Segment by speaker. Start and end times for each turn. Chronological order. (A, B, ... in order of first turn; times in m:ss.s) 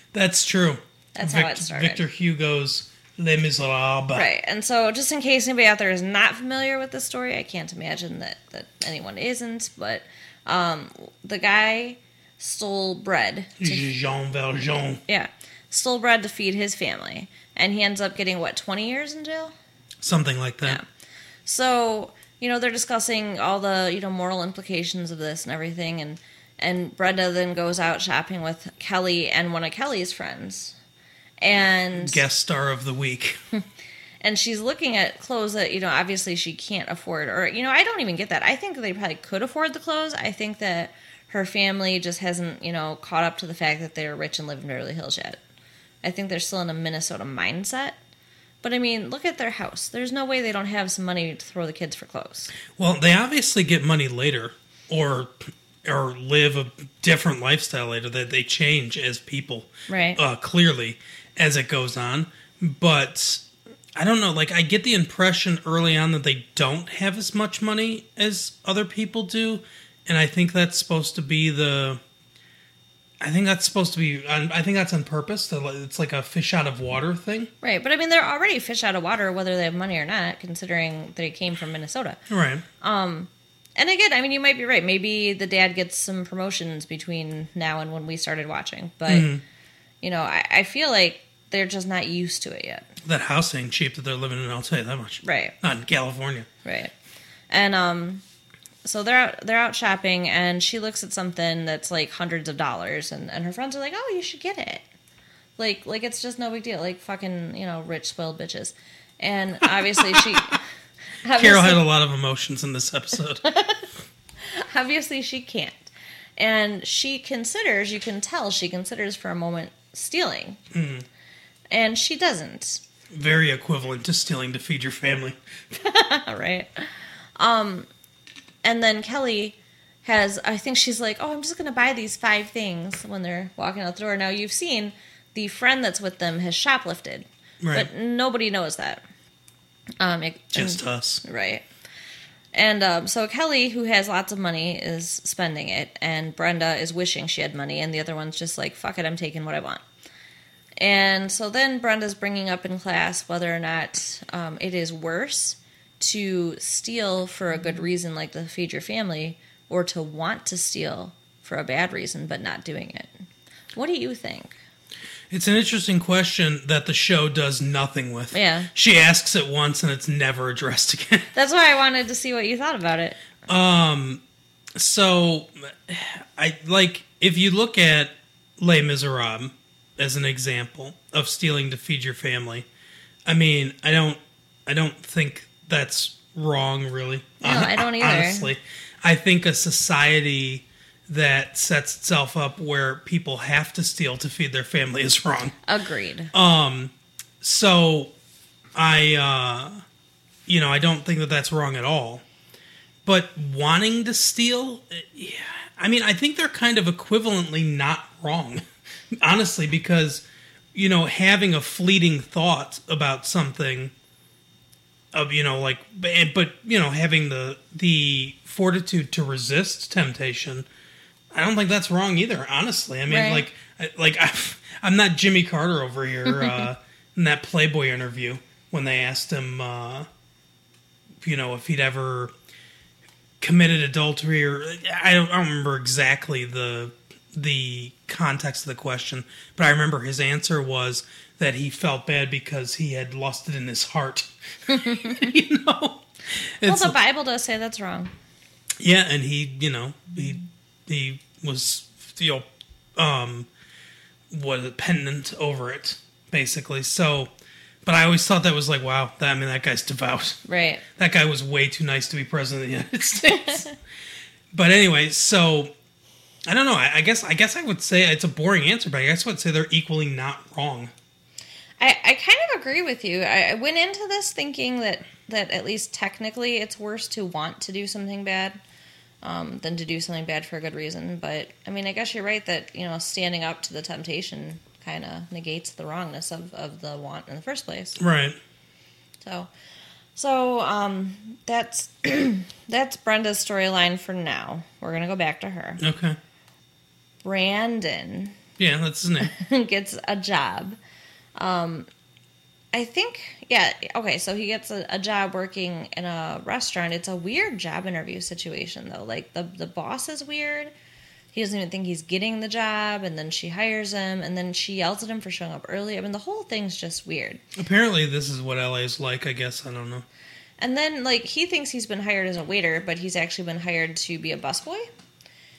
0:00.1-0:04.3 A
0:01.1-0:02.0 B
0:04.1-0:13.8 B
0:13.6-0:15.0 A
0:15.1-0:19.5 B
0:20.0-0:20.8 A
0:21.4-0:30.8 B
0:31.4-0:32.2 B
0:32.0-0:33.4 A
0:34.2-0:45.4 B
0:46.0-0:48.0 B
0:48.6-0:52.5 B
0:52.7-1:03.4 A
0:59.9-1:00.2 B
1:04.0-1:12.0 A
1:13.2-1:17.5 A
1:17.6-1:22.2 B
1:22.3-1:22.6 A
1:22.8-1:29.3 B
1:29.0-1:29.4 A
1:30.0-1:32.9 B
1:33.0-1:36.5 A
1:35.2-1:35.5 B
1:36.6-1:36.9 B
1:37.5-1:38.2 B
1:38.8-1:44.8 B
1:45.6-1:50.6 B
1:49.7-1:50.4 A
1:51.2-1:51.8 B
1:51.4-1:53.4 A
1:53.4-1:53.8 B
1:54.4-2:00.6 B
2:00.7-2:01.0 A
2:01.7-2:02.8 B
2:03.1-2:05.4 A
2:05.8-2:07.9 B
2:08.6-2:19.0 B
2:17.6-2:17.9 A
2:20.0-2:21.6 B
2:20.5-2:21.2 A
2:22.5-2:29.8 B
2:30.8-2:43.1 B
2:43.7-2:44.6 B
2:45.3-2:51.3 A
2:48.3-2:48.7 B
2:51.3-2:53.2 B
2:53.5-2:54.2 A
2:54.8-3:02.7 A
3:03.2-3:15.6 A
3:07.4-3:08.5 B
3:15.6-3:16.3 B
3:16.3-3:18.1 A
3:18.7-3:19.8 A
3:20.5-3:22.2 A
3:23.0-3:28.6 A
3:29.2-3:33.9 A
3:35.1-3:40.7 A
3:41.3-3:50.1 A
3:43.1-3:43.4 B
3:46.3-3:46.7 B
3:51.2-3:52.3 A
3:53.4-4:06.0 A
4:04.7-4:05.3 B
4:06.6-4:06.9 A
4:06.6-4:08.1 B
4:08.8-4:13.5 A
4:14.3-4:17.3 A
4:17.8-4:20.4 A
4:20.5-4:20.8 B
4:21.0-4:23.7 A
4:23.3-4:23.7 B
4:24.5-4:25.7 A
4:26.4-4:30.9 A
4:31.8-4:38.6 B
4:39.2-4:48.0 B
4:48.0-4:48.4 A
4:49.2-4:49.5 B
4:50.2-4:55.8 B
4:55.8-4:56.2 A
4:57.2-4:58.4 B
4:58.6-4:59.3 A
4:59.2-5:00.8 B
5:01.4-5:01.9 B
5:02.7-5:10.7 B
5:11.3-5:17.4 B
5:17.5-5:20.0 A
5:20.6-5:24.8 B